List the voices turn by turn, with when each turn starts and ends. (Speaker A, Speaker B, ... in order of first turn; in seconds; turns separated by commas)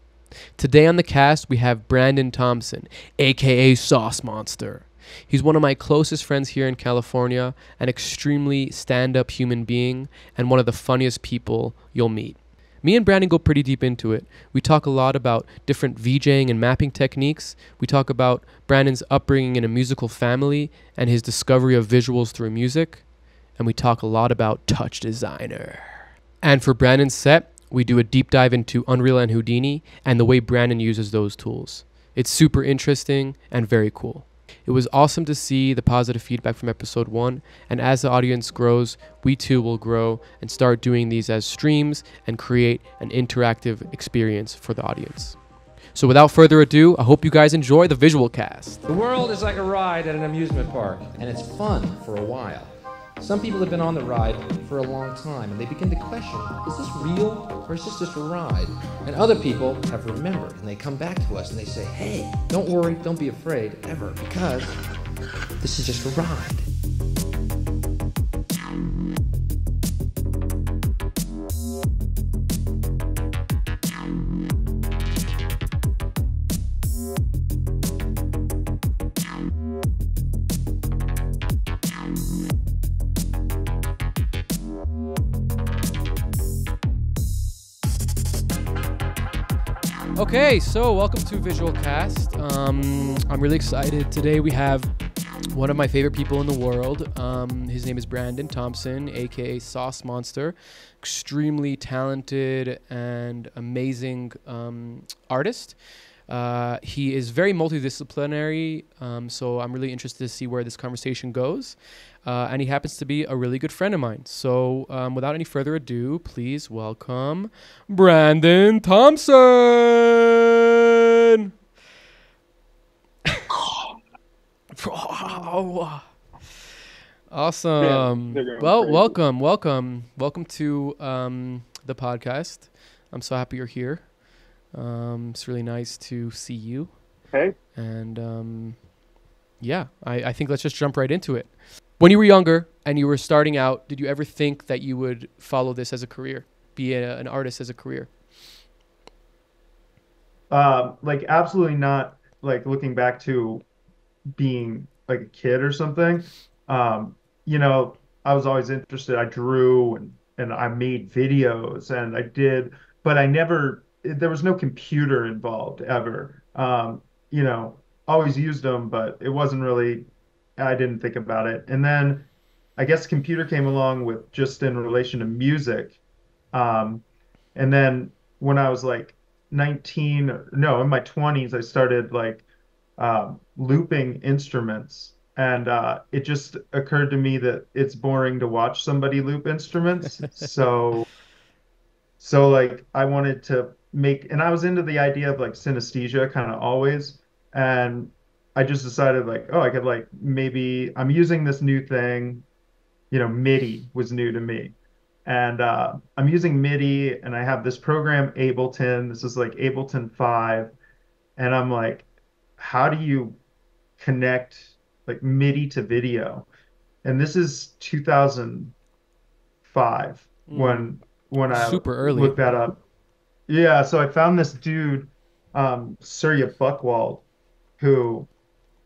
Speaker A: 0.6-23.0, Speaker A: 23.6-45.4, Speaker A: 45.9-48.8, Speaker B: 48.9-64.8, Speaker B: 65.6-66.7, Speaker A: 90.1-94.9, Speaker A: 95.5-121.5, Speaker C: 123.5-123.9, Speaker A: 124.7-126.0, Speaker A: 127.3-134.1, Speaker C: 127.8-129.2, Speaker A: 134.7-137.0, Speaker A: 137.7-138.8, Speaker A: 139.6-148.1, Speaker C: 150.5-153.6, Speaker C: 154.3-176.0, Speaker C: 176.5-177.0, Speaker C: 177.5-182.4, Speaker C: 183.0-191.1, Speaker C: 192.2-202.4, Speaker C: 203.1-210.7, Speaker C: 211.4-212.1, Speaker C: 212.6-213.4, Speaker C: 214.0-216.5, Speaker C: 217.0-218.7, Speaker C: 219.7-222.8, Speaker A: 220.5-220.9, Speaker A: 221.5-222.4, Speaker C: 223.5-227.2, Speaker C: 227.8-228.3